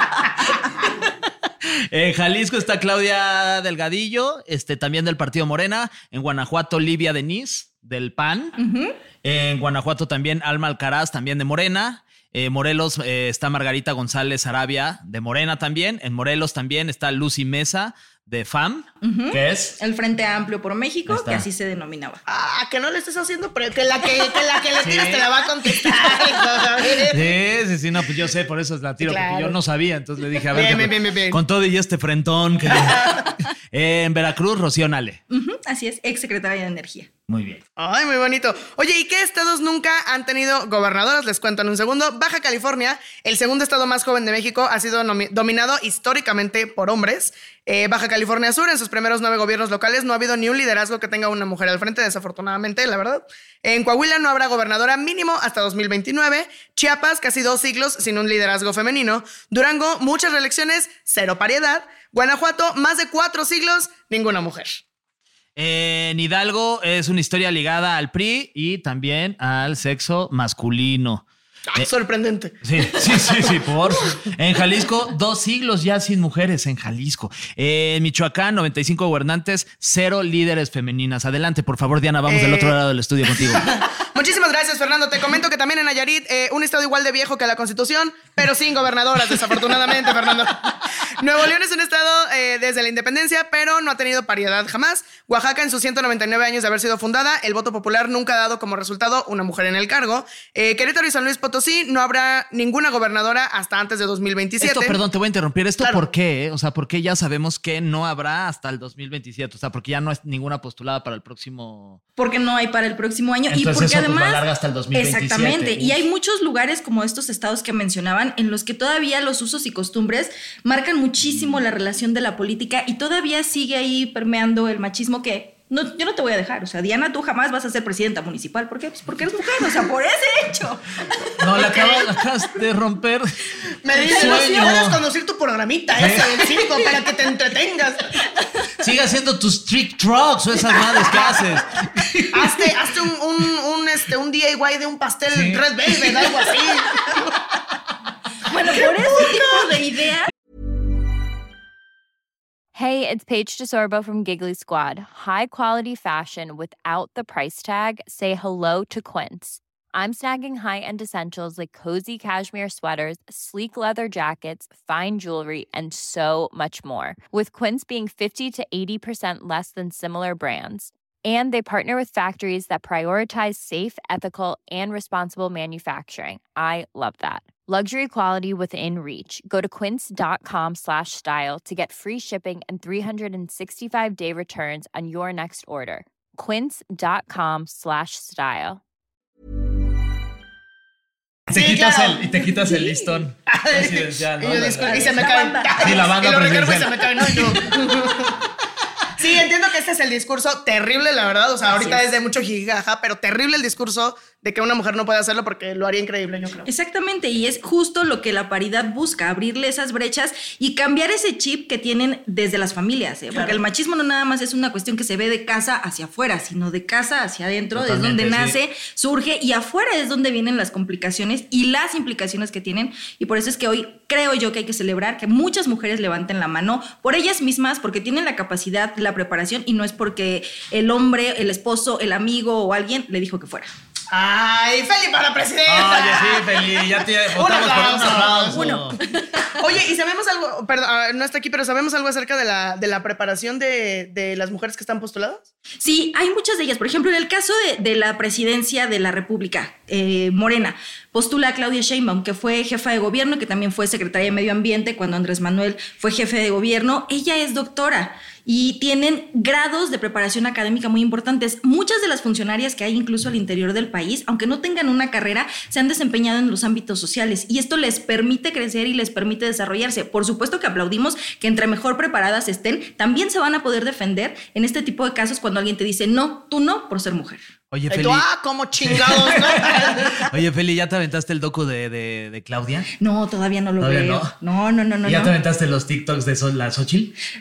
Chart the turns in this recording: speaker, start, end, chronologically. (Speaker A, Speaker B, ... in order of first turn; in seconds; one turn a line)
Speaker A: 0.5-8.6
Speaker B: 8.6-8.9
Speaker A: 9.2-19.8
Speaker B: 19.0-22.2
Speaker A: 21.1-21.4
Speaker C: 22.3-27.3
Speaker A: 24.8-25.3
Speaker A: 27.1-35.2
Speaker C: 29.0-29.6
Speaker C: 30.5-31.4
Speaker C: 32.8-33.2
Speaker B: 35.3-37.1
Speaker A: 37.3-37.6
Speaker C: 37.8-64.8
Speaker A: 65.5-71.2
Speaker C: 71.7-73.5
Speaker A: 72.6-83.8
Speaker C: 82.3-82.8
Speaker C: 83.4-105.0
Speaker A: 104.6-112.0
Speaker B: 112.2-132.0
Speaker A: 113.5-116.0
Speaker A: 121.2-121.6
Speaker A: 131.4-135.0
Speaker C: 133.8-138.1
Speaker B: 133.9-134.7
Speaker A: 135.9-136.5
Speaker A: 138.8-142.5
Speaker C: 142.3-147.3
Speaker A: 145.3-146.2
Speaker B: 148.4-150.3
Speaker D: 152.7-188.8
Speaker A: 191.5-195.1
Speaker C: 191.5-192.4
Speaker B: 192.4-193.2
Speaker C: 193.5-198.4
Speaker B: 194.8-196.1
Speaker A: 195.7-197.7
Speaker C: 199.2-206.7
Speaker B: 201.7-202.0
Speaker B: 206.7-233.7
Speaker C: 213.3-213.6
Speaker A: 217.7-218.6
Speaker C: 234.1-238.8
Speaker A: 235.7-239.0
Speaker B: 238.5-239.2
Speaker C: 239.6-245.4
Speaker B: 245.8-277.4
Speaker A: 277.7-278.2
Speaker C: 277.9-280.3
Speaker A: 278.8-282.9
Speaker B: 283.0-285.3
Speaker A: 283.8-284.4
Speaker A: 285.0-287.1